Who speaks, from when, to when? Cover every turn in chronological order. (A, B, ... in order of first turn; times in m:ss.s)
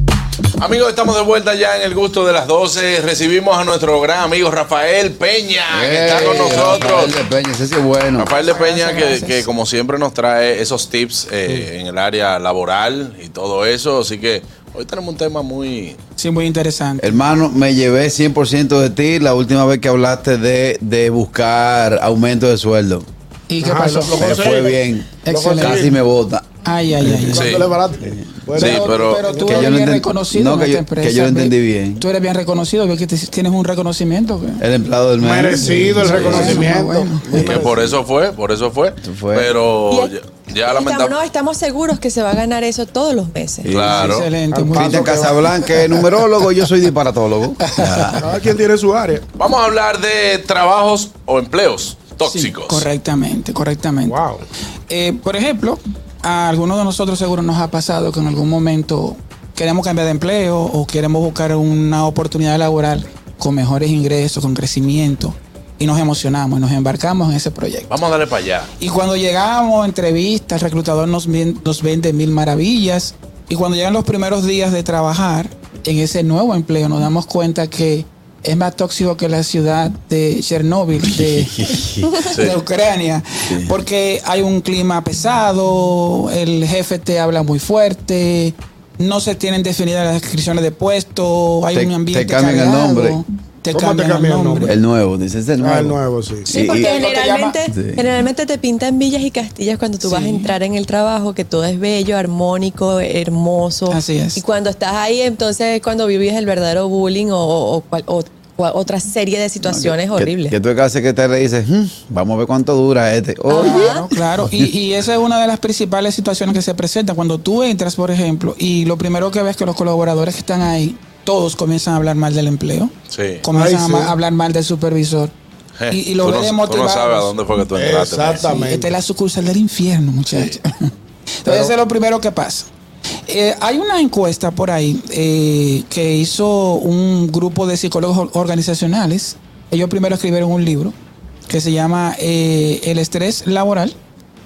0:00.6-0:07.2 A
0:05.7-0:08.3 B
0:08.2-0:16.0 A
0:08.4-0:09.5 C
0:16.2-0:17.2 C
0:17.0-0:23.0 B
0:23.5-0:24.2 C
0:23.6-0:25.9 D
0:24.2-0:26.5 B
0:25.2-0:25.9 C
0:26.6-0:27.6 C
0:27.0-0:28.7 B
0:27.3-0:27.7 A
0:27.3-0:29.7 D
0:28.6-0:29.2 A
0:28.6-0:34.6 C
0:29.4-0:32.0 B
0:34.6-0:36.7 B
0:35.2-0:37.8 D
0:36.0-0:37.2 C
0:36.1-0:36.7 A
0:37.3-0:37.9 B
0:37.3-0:41.2 A
0:39.0-0:39.6 B
0:39.9-0:43.8 E
0:43.6-0:44.1 B
0:43.6-0:44.3 A
0:43.9-0:45.2 C
0:44.5-0:45.4 D
0:44.7-0:48.4 B
0:47.6-0:48.2 C
0:48.2-0:49.2 D
0:49.4-0:52.8 A
0:52.2-0:54.2 C
0:54.1-0:54.4 D
0:54.9-1:08.0 C
1:07.9-1:08.7 A
1:08.8-1:34.8 C
1:21.2-1:22.1 B
1:22.3-1:22.5 A
1:23.5-1:23.7 B
1:31.7-1:33.2 B
1:33.7-1:34.7 D
1:34.6-1:36.9 B
1:35.6-1:36.5 D
1:36.5-1:50.5 E
1:36.6-1:37.6 C
1:37.6-1:38.1 B
1:40.0-1:40.5 C
1:43.9-1:44.4 C
1:49.6-1:54.6 B
1:53.5-1:54.0 E
1:53.6-2:05.3 C
2:03.1-2:03.4 A
2:03.5-2:04.1 D
2:05.8-2:08.6 A
2:05.9-2:07.3 C
2:07.7-2:08.9 D
2:08.5-2:10.9 C
2:11.4-2:12.7 C
2:13.2-2:20.9 C
2:21.5-2:24.0 C